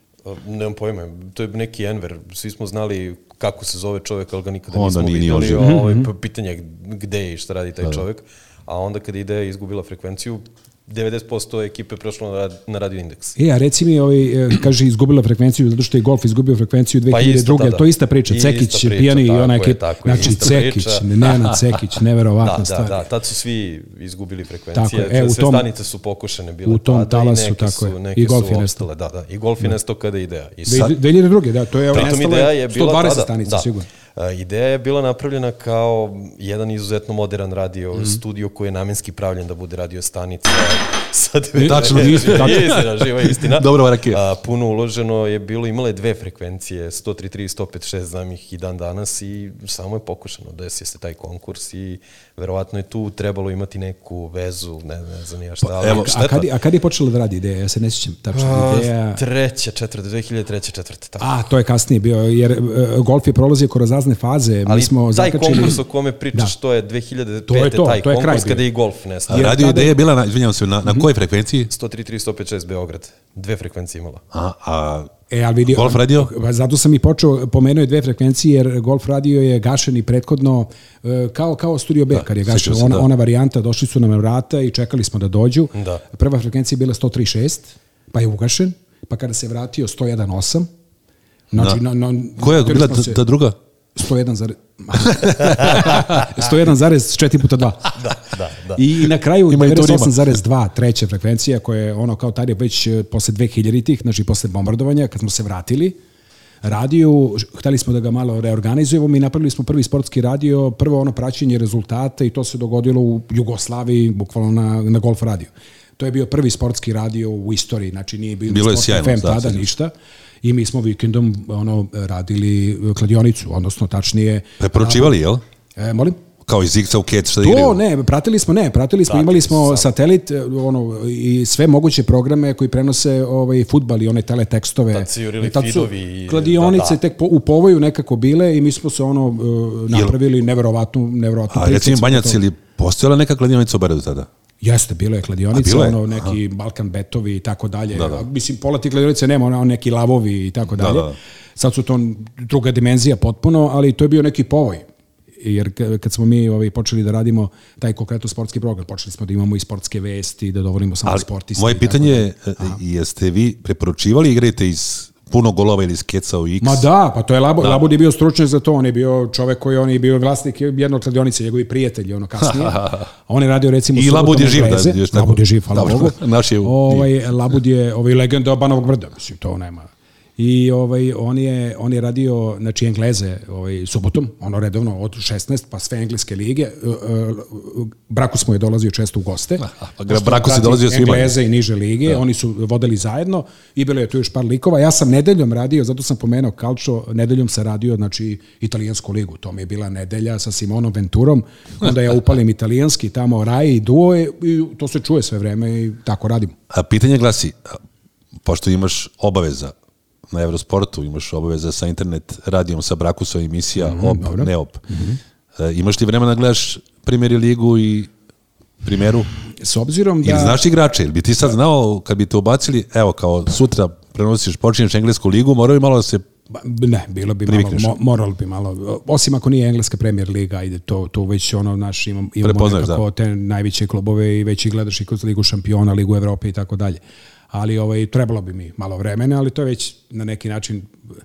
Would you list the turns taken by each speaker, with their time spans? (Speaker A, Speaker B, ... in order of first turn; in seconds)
Speaker A: 0.2-13.4, 17.1-21.1, 22.4-31.0, 31.9-56.5, 58.3-61.3, 64.7-69.5, 71.7-74.2, 85.8-86.0, 98.0-98.8, 129.1-129.9, 134.9-137.0
Speaker B: 4.7-5.8, 41.6-44.2, 55.6-56.3, 69.3-71.7, 74.3-75.1, 75.7-76.3, 82.1-83.1, 92.4-93.6, 95.0-96.2, 99.5-100.2, 118.5-119.7, 124.6-125.4, 126.5-127.8, 139.9-140.2, 141.5-144.3, 145.5-146.3, 147.9-148.2, 150.8-151.1, 161.1-166.9, 172.4-173.1, 173.9-177.1, 189.6-191.3, 206.7-207.8, 208.4-209.7, 210.3-214.8, 215.6-218.1, 218.8-219.3, 220.2-226.3, 227.5-227.9, 232.4-233.0
Speaker C: 5.5-6.1, 13.4-23.1, 24.7-25.7, 26.7-28.9, 30.7-33.9, 41.6-42.8, 55.9-59.2, 61.2-65.8, 67.5-68.6, 69.3-70.0, 75.3-90.7, 91.5-93.2, 94.0-98.0, 98.7-106.0, 106.6-119.9, 120.4-125.2, 125.8-126.2, 127.4-142.4, 144.6-154.8, 155.4-162.8, 166.6-206.6, 213.8-215.2, 219.6-220.6, 226.5-237.0, 237.5-241.0